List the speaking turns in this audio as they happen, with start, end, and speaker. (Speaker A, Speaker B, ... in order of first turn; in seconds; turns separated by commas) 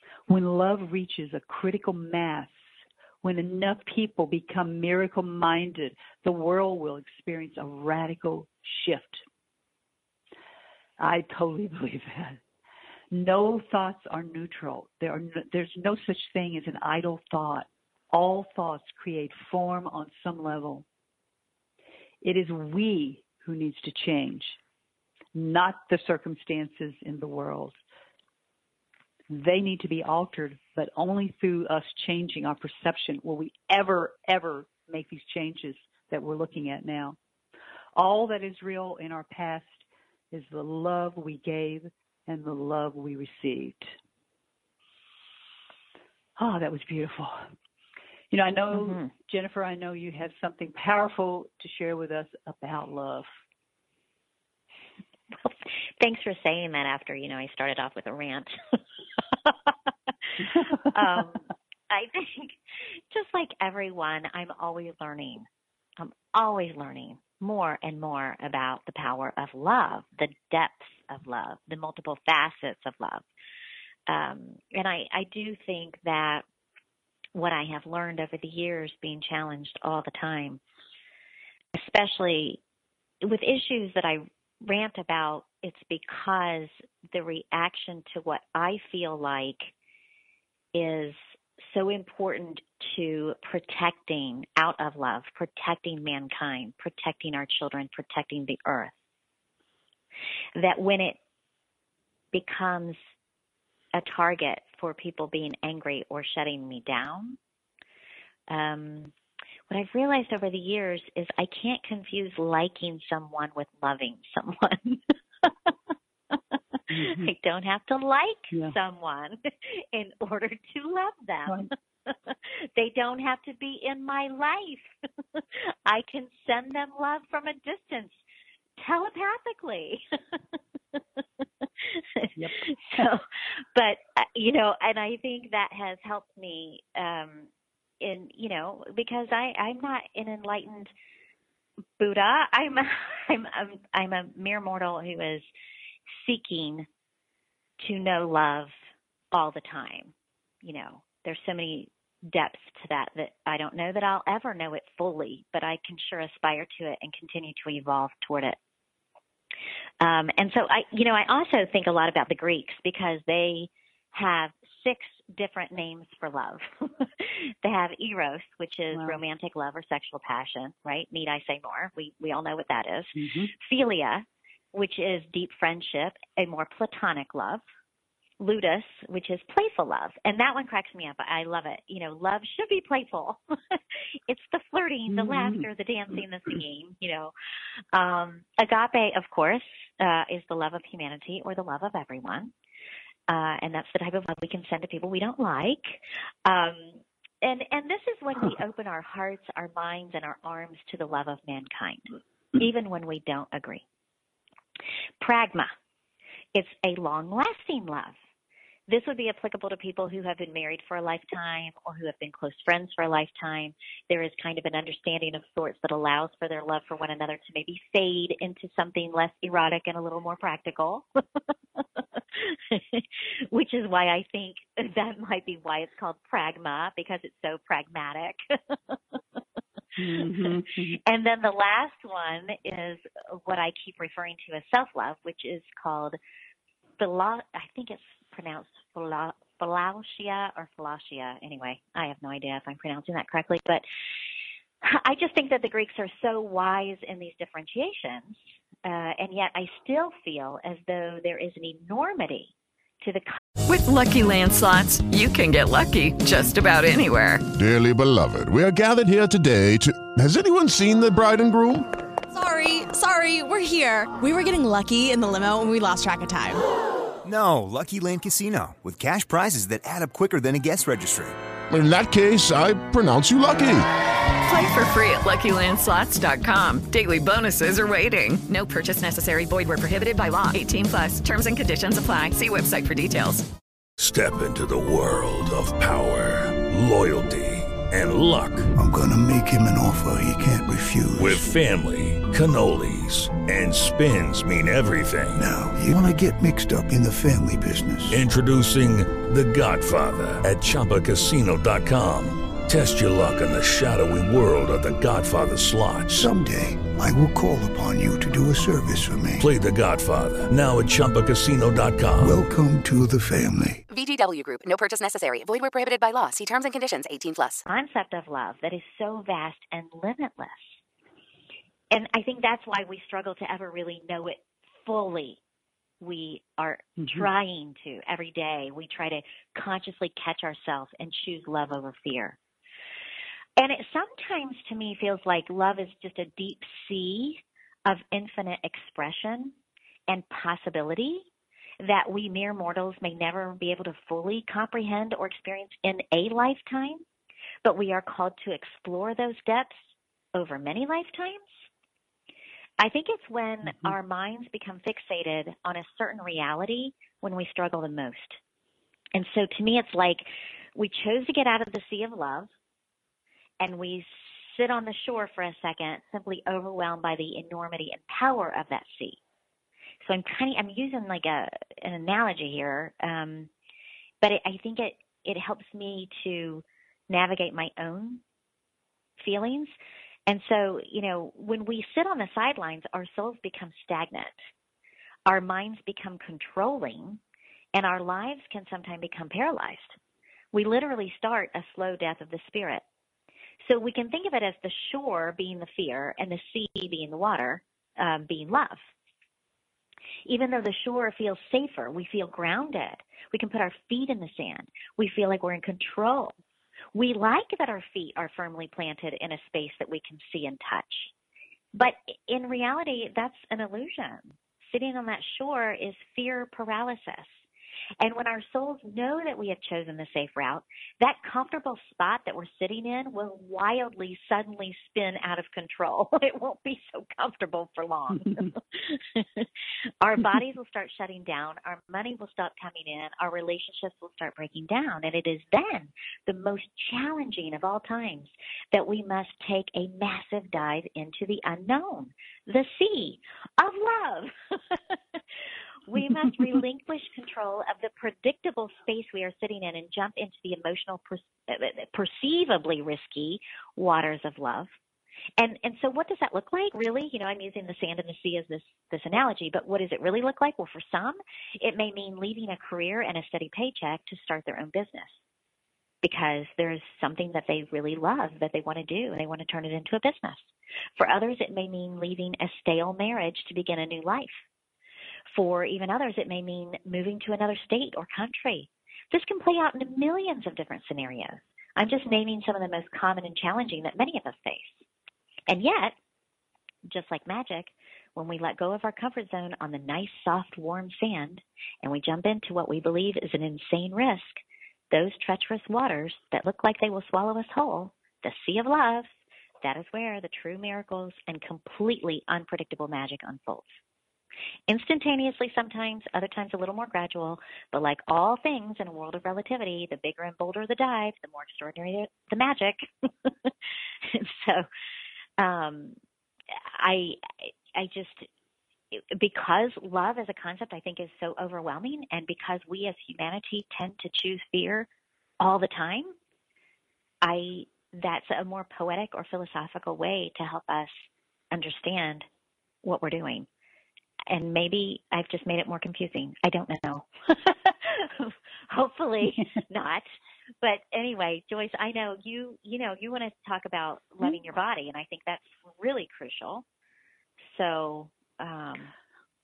Speaker A: 0.3-2.5, Speaker A: 3.2-9.2, Speaker A: 11.0-12.4, Speaker A: 13.1-20.9, Speaker A: 22.2-24.6, Speaker A: 25.4-27.8, Speaker A: 29.3-37.2, Speaker A: 38.0-43.9, Speaker A: 46.4-47.4, Speaker A: 48.3-53.3, Speaker B: 48.7-49.1, Speaker B: 55.4-58.5, Speaker B: 59.5-62.6, Speaker A: 60.4-60.8, Speaker B: 63.1-65.5, Speaker B: 66.0-73.2, Speaker B: 74.1-76.4, Speaker B: 77.3-80.6, Speaker B: 81.8-82.6, Speaker B: 83.2-89.7, Speaker B: 90.7-98.9, Speaker B: 100.6-101.2, Speaker B: 102.3-103.0, Speaker B: 103.9-107.4, Speaker B: 108.5-109.1, Speaker B: 109.7-115.0, Speaker A: 116.9-117.3, Speaker B: 117.0-128.2, Speaker B: 128.8-130.0, Speaker B: 131.9-133.2, Speaker B: 133.8-137.5, Speaker B: 138.0-140.9, Speaker B: 142.0-145.5, Speaker B: 146.1-146.9, Speaker B: 147.8-148.7, Speaker B: 149.3-158.6, Speaker B: 160.0-177.6, Speaker A: 168.9-169.2, Speaker A: 173.2-173.5, Speaker B: 178.4-183.8, Speaker B: 184.3-187.3, Speaker A: 185.1-185.7, Speaker B: 187.9-192.5, Speaker B: 193.3-203.8, Speaker B: 205.2-205.7, Speaker B: 206.5-208.2, Speaker B: 208.9-221.1, Speaker B: 222.0-229.0, Speaker A: 230.0-231.0, Speaker B: 231.0-236.2, Speaker B: 237.0-243.8, Speaker B: 244.8-253.4, Speaker C: 253.7-257.4, Speaker D: 257.5-261.9, Speaker E: 262.3-266.6, Speaker F: 267.2-271.4, Speaker D: 271.7-273.9, Speaker C: 274.4-283.5, Speaker G: 284.0-288.7, Speaker H: 288.8-291.4, Speaker G: 291.2-295.4, Speaker H: 295.4-298.2, Speaker G: 298.1-306.3, Speaker H: 306.1-309.4, Speaker G: 309.4-312.4, Speaker H: 312.2-313.9, Speaker I: 313.9-317.6, Speaker B: 317.7-320.8, Speaker B: 321.9-325.4, Speaker B: 326.0-332.4, Speaker A: 327.0-327.3, Speaker B: 333.6-339.6, Speaker B: 340.1-341.3, Speaker B: 341.8-347.0, Speaker B: 347.6-351.7, Speaker B: 352.8-358.4, Speaker A: 353.6-353.9, Speaker B: 359.1-362.5, Speaker B: 363.6-369.2, Speaker B: 370.0-373.5, Speaker B: 374.2-378.2, Speaker B: 379.2-379.8, Speaker B: 380.3-384.4, Speaker B: 385.3-387.2, Speaker B: 387.7-390.0, Speaker B: 390.5-392.8, Speaker B: 393.6-398.9, Speaker B: 400.3-406.3, Speaker B: 406.9-411.1, Speaker B: 411.8-417.4, Speaker B: 418.0-429.5, Speaker B: 430.0-444.9, Speaker B: 445.9-454.7, Speaker B: 455.4-465.2, Speaker B: 466.0-474.4, Speaker B: 475.3-484.9, Speaker B: 485.5-485.9, Speaker B: 486.9-499.1, Speaker B: 499.6-503.8, Speaker B: 504.7-513.5, Speaker B: 514.0-514.7, Speaker B: 515.4-516.0, Speaker B: 516.5-518.3, Speaker B: 518.9-524.9, Speaker B: 525.4-526.1, Speaker B: 527.2-532.3, Speaker B: 532.8-533.5, Speaker B: 534.3-540.0, Speaker B: 540.6-546.6, Speaker B: 547.4-548.9